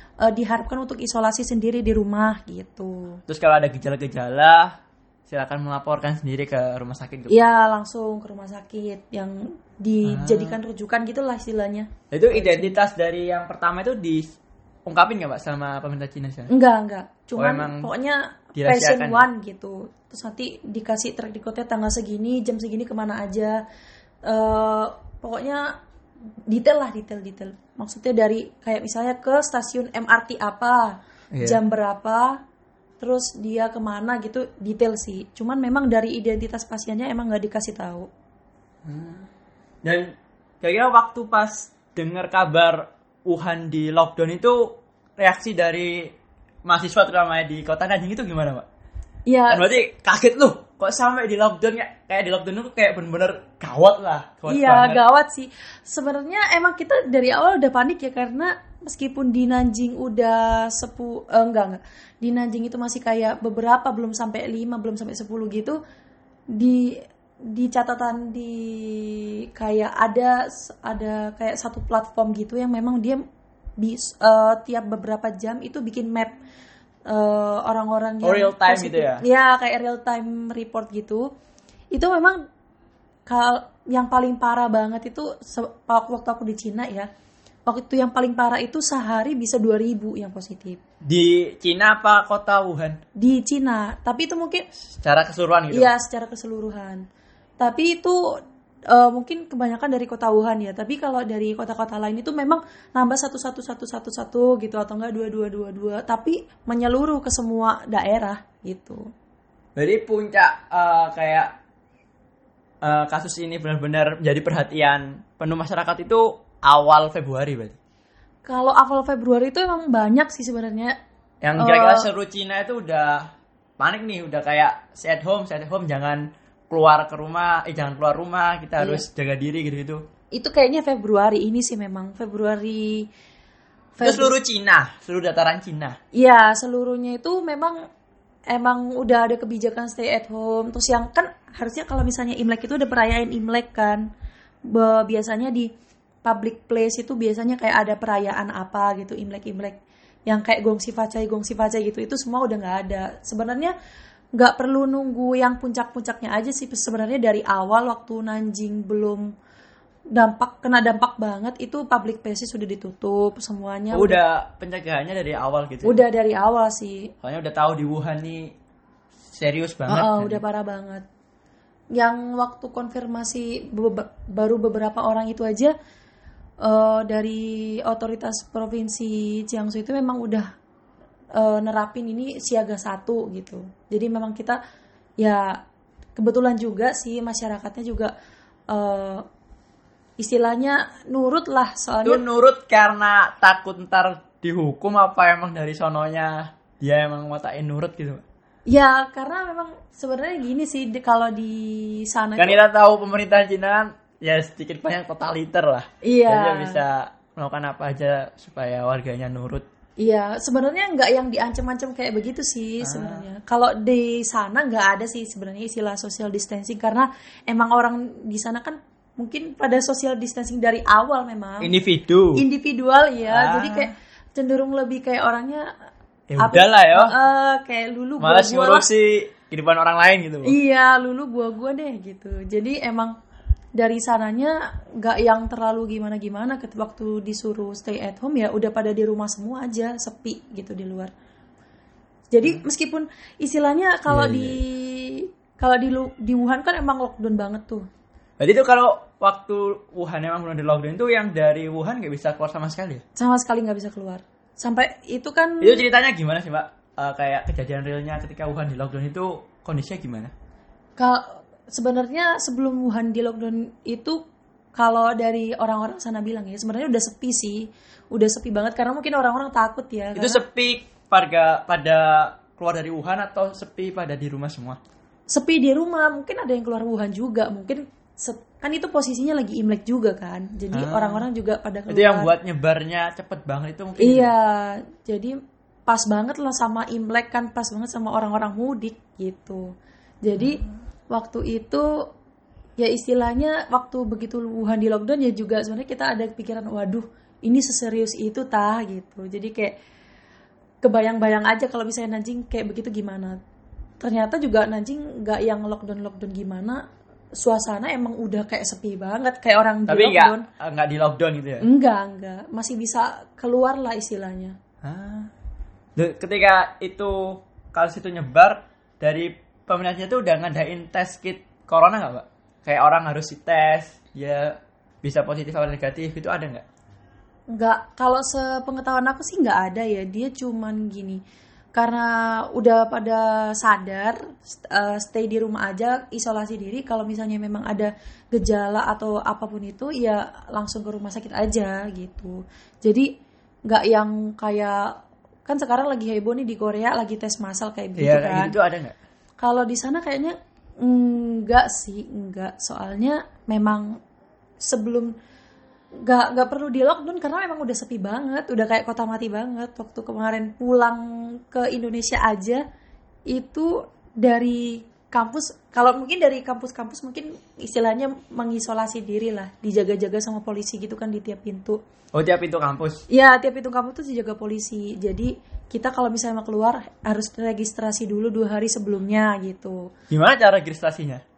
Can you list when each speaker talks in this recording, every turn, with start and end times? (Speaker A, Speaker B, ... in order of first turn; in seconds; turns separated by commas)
Speaker A: 0.2-3.2, Speaker B: 3.3-4.8, Speaker B: 5.3-7.4, Speaker A: 7.3-12.7, Speaker B: 10.1-10.6, Speaker B: 12.1-14.3, Speaker B: 14.8-16.5, Speaker A: 16.5-23.6, Speaker B: 17.4-17.9, Speaker B: 18.5-19.2, Speaker A: 24.2-25.7, Speaker A: 26.5-32.4, Speaker B: 31.3-31.6, Speaker A: 33.0-38.1, Speaker B: 38.8-39.3, Speaker B: 39.8-46.1, Speaker B: 46.6-48.6, Speaker A: 49.3-49.7, Speaker B: 49.5-55.0, Speaker A: 54.5-65.8, Speaker A: 66.5-73.2, Speaker A: 73.8-76.4, Speaker A: 77.1-81.3, Speaker B: 78.2-79.2, Speaker A: 81.9-82.4, Speaker A: 83.3-87.1, Speaker A: 87.7-90.8, Speaker B: 91.0-93.0, Speaker A: 93.2-94.6, Speaker B: 95.0-95.9, Speaker A: 95.7-97.0, Speaker A: 97.6-98.2, Speaker A: 98.9-109.1, Speaker B: 109.8-111.5, Speaker B: 112.8-117.8, Speaker A: 118.5-120.9, Speaker B: 121.4-130.0, Speaker A: 121.6-122.1, Speaker A: 128.8-129.1, Speaker A: 130.3-133.1, Speaker A: 134.0-134.3, Speaker B: 134.0-136.0, Speaker A: 136.1-137.8, Speaker A: 138.5-144.1, Speaker A: 144.7-145.7, Speaker A: 146.2-153.7, Speaker A: 154.3-159.2, Speaker A: 160.1-164.2, Speaker B: 163.9-166.0, Speaker A: 165.8-167.1, Speaker B: 167.2-168.5, Speaker B: 169.3-170.4, Speaker A: 169.9-171.1, Speaker A: 171.9-175.7, Speaker A: 176.6-180.5, Speaker A: 181.3-184.6, Speaker A: 185.2-185.6, Speaker A: 186.2-188.1, Speaker A: 188.7-189.2, Speaker A: 190.2-192.2, Speaker B: 192.0-198.2, Speaker A: 198.7-202.6, Speaker B: 202.4-209.6, Speaker A: 206.0-206.8, Speaker A: 210.0-221.7, Speaker B: 212.8-213.2, Speaker B: 221.6-222.4, Speaker A: 222.3-225.7, Speaker B: 223.3-223.9, Speaker B: 226.3-227.1, Speaker A: 226.4-228.8, Speaker B: 228.2-230.6, Speaker A: 230.4-233.2, Speaker A: 233.8-241.1, Speaker A: 242.3-247.8, Speaker B: 244.1-244.6, Speaker B: 248.4-253.0, Speaker A: 253.2-255.8, Speaker B: 255.6-260.3, Speaker A: 261.0-264.2, Speaker A: 264.8-270.4, Speaker B: 270.1-274.8, Speaker A: 275.3-282.3, Speaker B: 280.7-281.2, Speaker B: 281.9-284.3, Speaker A: 284.0-285.3, Speaker A: 285.9-291.9, Speaker B: 290.4-290.7, Speaker A: 292.8-299.7, Speaker A: 300.8-303.4, Speaker A: 304.0-306.8, Speaker A: 307.4-310.4, Speaker B: 309.9-311.6, Speaker A: 311.6-314.6, Speaker B: 314.8-315.3, Speaker B: 315.9-326.6, Speaker A: 327.5-331.2, Speaker A: 331.7-343.1, Speaker A: 343.7-344.9, Speaker A: 345.4-348.6, Speaker B: 348.0-348.9, Speaker A: 349.4-354.0, Speaker A: 354.6-355.1, Speaker A: 356.0-362.6, Speaker A: 363.3-371.8, Speaker B: 372.1-373.0, Speaker A: 373.1-379.9, Speaker B: 380.1-381.2